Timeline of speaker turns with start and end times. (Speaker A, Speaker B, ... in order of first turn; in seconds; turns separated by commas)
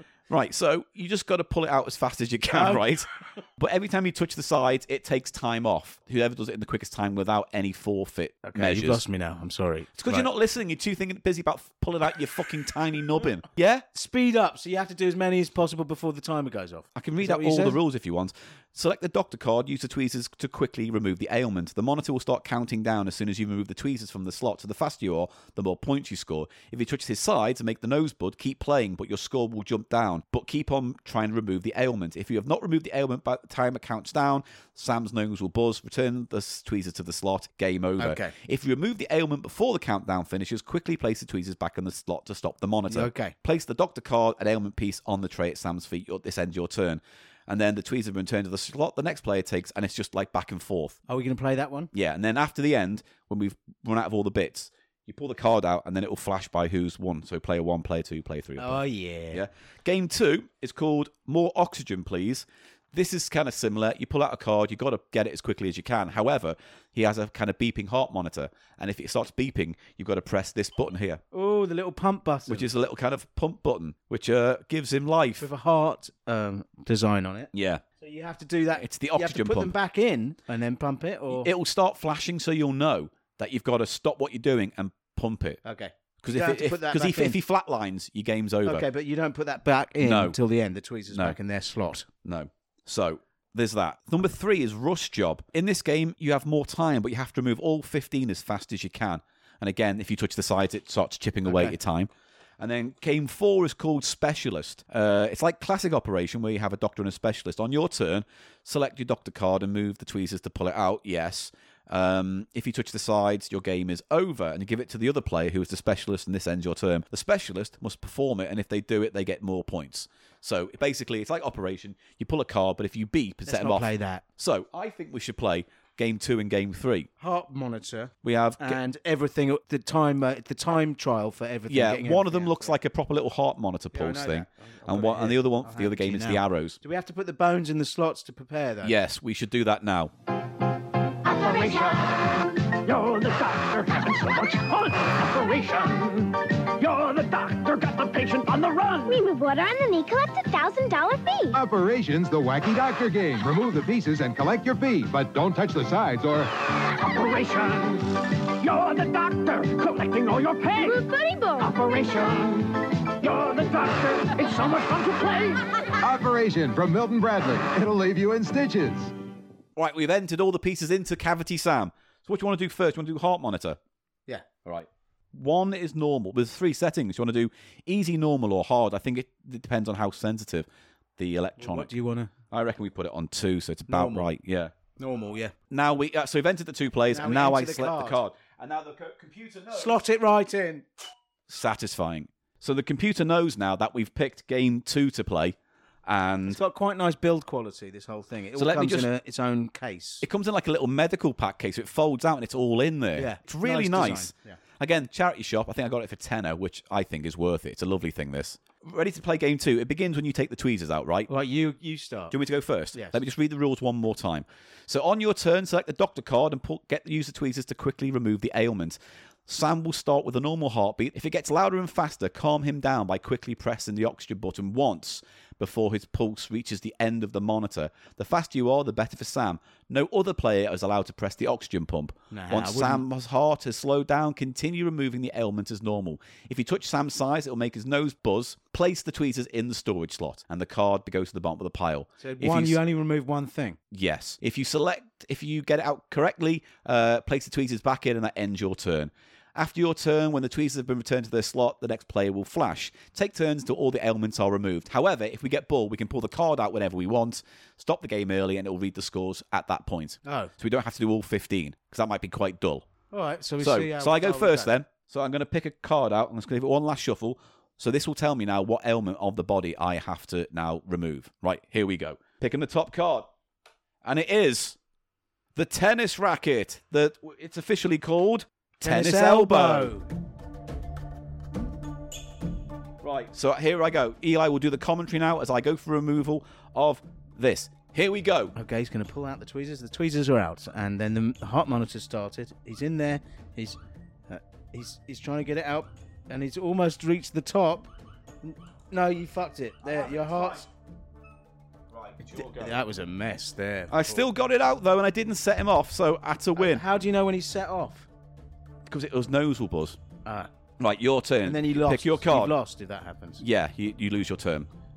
Speaker A: 0.3-9.0, Speaker B: 2.5-2.9, Speaker B: 8.4-10.3, Speaker A: 10.0-13.8, Speaker B: 13.9-17.8, Speaker A: 17.0-51.0, Speaker B: 38.0-38.3, Speaker B: 42.9-43.3, Speaker B: 51.1-51.9, Speaker A: 51.9-71.2, Speaker B: 58.6-59.4, Speaker B: 71.3-72.7, Speaker A: 72.5-75.5, Speaker B: 75.4-81.5, Speaker A: 77.5-77.8, Speaker A: 78.8-79.7, Speaker A: 81.3-85.6, Speaker B: 85.6-87.4, Speaker A: 86.2-88.9, Speaker B: 88.7-92.1, Speaker A: 90.0-90.4, Speaker A: 91.1-91.4, Speaker A: 92.2-127.1, Speaker B: 101.5-101.8, Speaker B: 123.5-124.2, Speaker B: 127.2-132.8, Speaker A: 128.2-128.8, Speaker A: 131.7-136.8, Speaker B: 133.9-138.9, Speaker A: 138.8-140.1, Speaker C: 141.2-149.2, Speaker D: 141.3-142.0, Speaker D: 149.1-151.6, Speaker E: 151.5-156.5, Speaker C: 156.9-161.1, Speaker D: 160.8-161.8, Speaker C: 161.6-165.7, Speaker E: 166.0-169.1, Speaker A: 169.8-173.8, Speaker A: 174.7-181.9, Speaker B: 181.6-182.3, Speaker A: 182.5-184.7, Speaker B: 183.9-184.3, Speaker B: 185.0-185.5, Speaker A: 185.7-190.0, Speaker B: 187.1-188.2, Speaker B: 189.7-190.9, Speaker A: 191.5-196.6, Speaker B: 196.5-200.3, Speaker A: 198.5-199.1, Speaker A: 200.2-211.3, Speaker B: 203.2-204.6, Speaker B: 211.3-212.3, Speaker A: 212.3-242.8, Speaker B: 212.9-213.2, Speaker B: 232.3-233.0, Speaker B: 242.2-243.8, Speaker A: 243.9-262.9, Speaker B: 260.2-260.5, Speaker B: 263.1-264.7, Speaker A: 263.6-273.3, Speaker A: 274.0-274.8, Speaker A: 275.6-279.9, Speaker B: 278.8-280.1, Speaker A: 283.0-288.6, Speaker B: 288.6-293.8, Speaker B: 294.3-297.9, Speaker B: 298.4-300.7, Speaker A: 299.8-300.7, Speaker A: 301.9-302.8, Speaker B: 302.4-304.2, Speaker A: 303.9-306.9, Speaker B: 306.6-308.1, Speaker A: 308.9-310.0, Speaker A: 310.8-312.6, Speaker B: 311.4-313.4, Speaker A: 313.4-314.7